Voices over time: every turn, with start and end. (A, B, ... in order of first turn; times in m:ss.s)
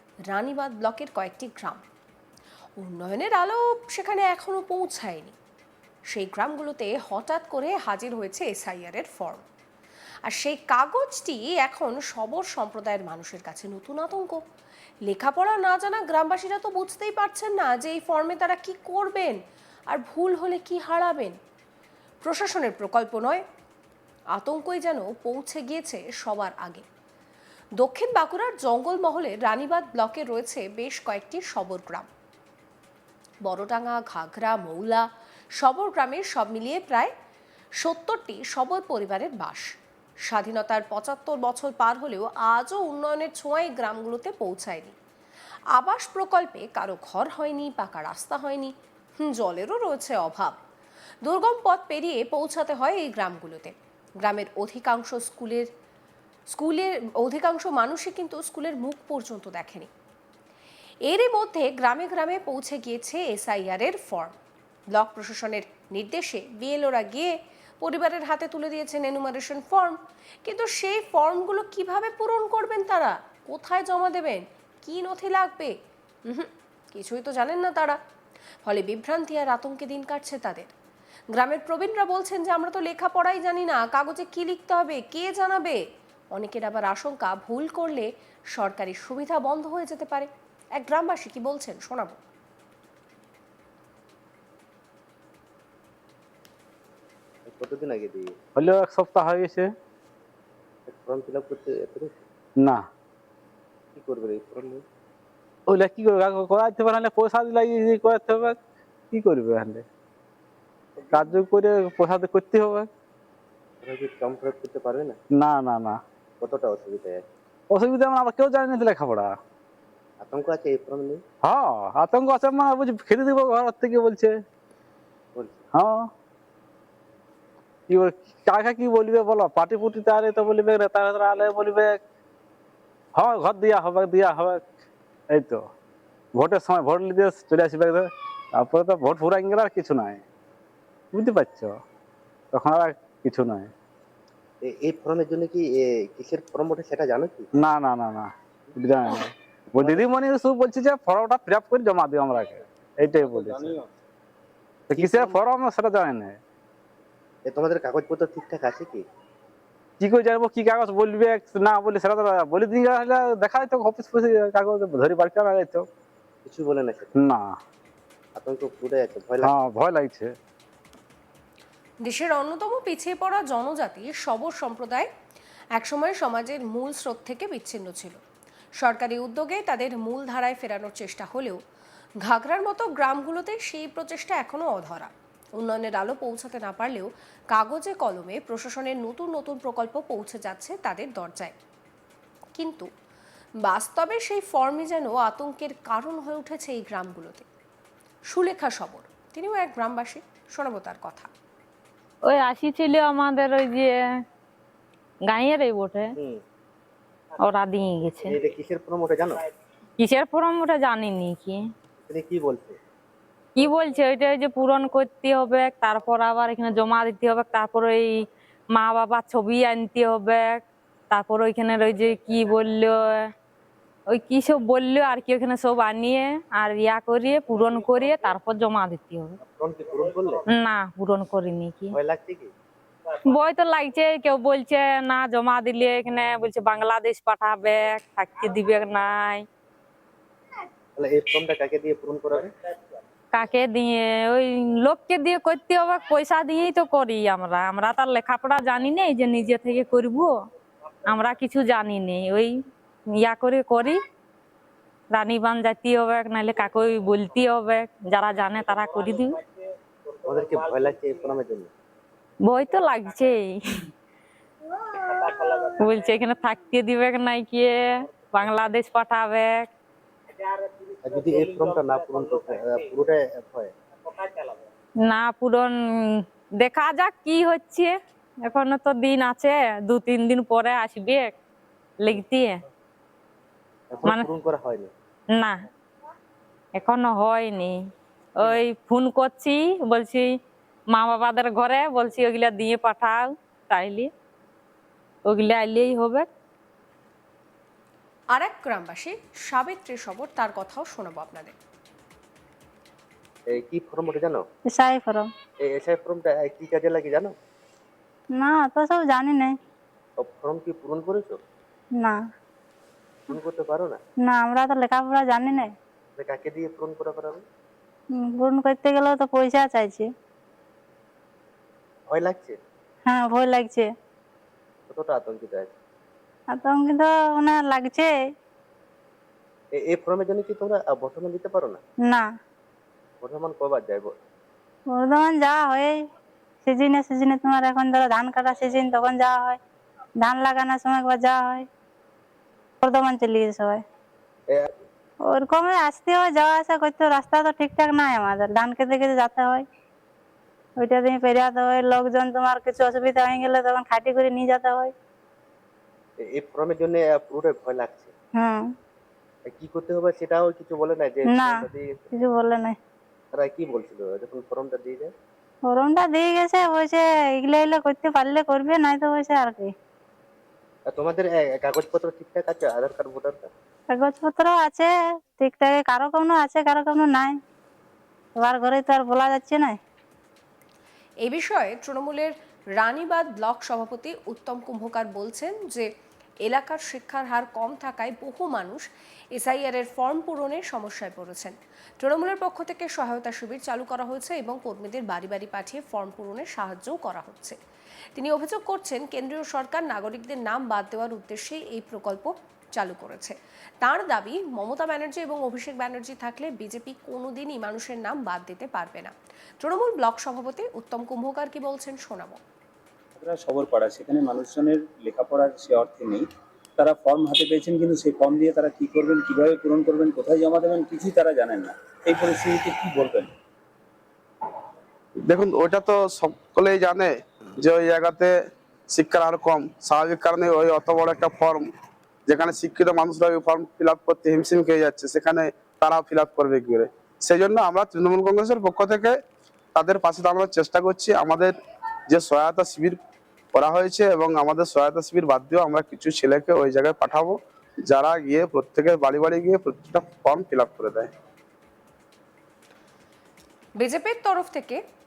0:00.3-0:01.8 A
0:02.8-0:05.3 A
0:06.1-0:09.4 A
0:10.2-0:14.4 A
0:15.0-0:21.4 A
0:22.2-0:23.4 A
0:24.3-0:26.8 A
0:27.8-0:32.1 A
0:33.4-0:35.0 A
0:35.6-0:37.1 A
0:37.8-0:39.7 A
0:40.3-0:45.0 A
0:45.8-0:48.7 A
0:49.2-0:50.6 A
0:51.2-0:55.7 A
0:56.5-0:59.9 A
1:01.1-1:04.4 A
1:04.9-1:15.8 A
1:16.3-1:18.0 A
1:18.6-1:20.7 A
1:21.3-1:25.8 A
1:26.3-1:32.2 A
1:37.4-1:38.3 B
1:38.6-1:39.7 C
1:40.9-1:42.2 B
1:42.6-1:42.9 C
1:44.0-1:44.8 B
1:45.7-1:48.6 C
1:49.1-1:49.8 C
1:51.1-1:52.9 C
1:53.8-1:55.2 B
1:55.4-1:56.0 C
1:56.4-1:57.2 B
1:57.7-1:59.3 C
2:00.2-2:01.2 B
2:01.4-2:04.3 C
2:05.7-2:06.0 C
2:07.9-2:12.0 C
2:13.2-2:14.7 C
2:15.3-2:15.6 C
2:16.3-2:20.2 C
2:21.1-2:21.7 C
2:22.5-2:23.7 C
2:24.6-2:27.5 B
2:27.5-2:33.7 C
2:29.8-2:30.1 B
2:34.9-2:36.4 C
2:34.9-2:35.4 B
2:37.4-2:39.0 B
2:40.0-2:45.9 C
2:46.4-2:47.1 B
2:47.1-2:47.5 C
2:48.4-2:49.5 B
2:49.4-2:50.3 C
2:52.0-2:55.1 A
2:55.8-2:58.2 A
2:58.8-3:01.6 A
3:02.2-3:11.5 A
3:12.6-3:12.9 A
3:13.6-3:17.4 A
3:18.3-3:21.3 A
3:22.3-3:23.9 D
3:25.3-3:26.1 D
3:27.4-3:28.3 D
3:28.2-3:29.4 B
3:30.0-3:31.6 D
3:32.0-3:32.8 B
3:33.6-3:38.1 D
3:38.7-3:40.6 D
3:41.1-3:43.2 D
3:44.1-3:49.4 D
3:49.4-3:50.4 B
3:50.5-3:52.0 D
3:51.9-3:52.5 B
3:53.3-3:59.4 D
4:01.0-4:02.5 B
4:03.3-4:10.3 D
4:11.0-4:12.5 D
4:13.2-4:14.0 D
4:15.1-4:19.4 D
4:20.2-4:21.7 B
4:22.4-4:23.5 D
4:25.2-4:29.6 D
4:31.0-4:33.7 B
4:35.0-4:37.9 D
4:38.4-4:41.3 D
4:42.0-4:42.5 D
4:43.9-4:44.9 B
4:46.8-4:47.7 D
4:48.4-4:50.3 D
4:50.9-4:54.1 D
4:55.3-4:56.2 D
4:58.3-5:01.5 A
5:03.5-5:04.4 B
5:04.7-5:05.3 E
5:05.6-5:07.3 B
5:08.4-5:09.6 E
5:10.2-5:11.4 B
5:13.3-5:14.0 B
5:14.2-5:15.7 E
5:16.2-5:17.4 B
5:18.1-5:20.1 E
5:22.1-5:22.6 B
5:23.1-5:23.9 E
5:24.9-5:25.7 B
5:26.5-5:28.1 E
5:29.7-5:31.8 B
5:33.2-5:34.1 B
5:34.9-5:36.0 E
5:36.6-5:39.6 E
5:40.2-5:41.7 E
5:42.8-5:43.8 E
5:45.3-5:49.6 E
5:50.8-5:54.9 E
5:56.2-5:58.1 B
5:58.4-5:58.7 E
5:59.5-6:02.1 B
6:01.3-6:01.6 E
6:02.1-6:02.8 E
6:03.3-6:05.1 B
6:05.7-6:09.7 E
6:10.9-6:13.5 B
6:13.9-6:17.4 E
6:18.4-6:19.8 E
6:21.2-6:25.9 A
6:26.4-6:37.6 A
6:38.2-6:52.4 A
6:53.2-6:56.2 F
6:56.8-7:03.3 F
7:05.3-7:08.3 G
7:08.9-7:11.7 G
7:12.3-7:19.2 G
7:19.8-7:21.5 G
7:22.1-7:23.0 G
7:23.5-7:31.1 G
7:33.8-7:34.8 A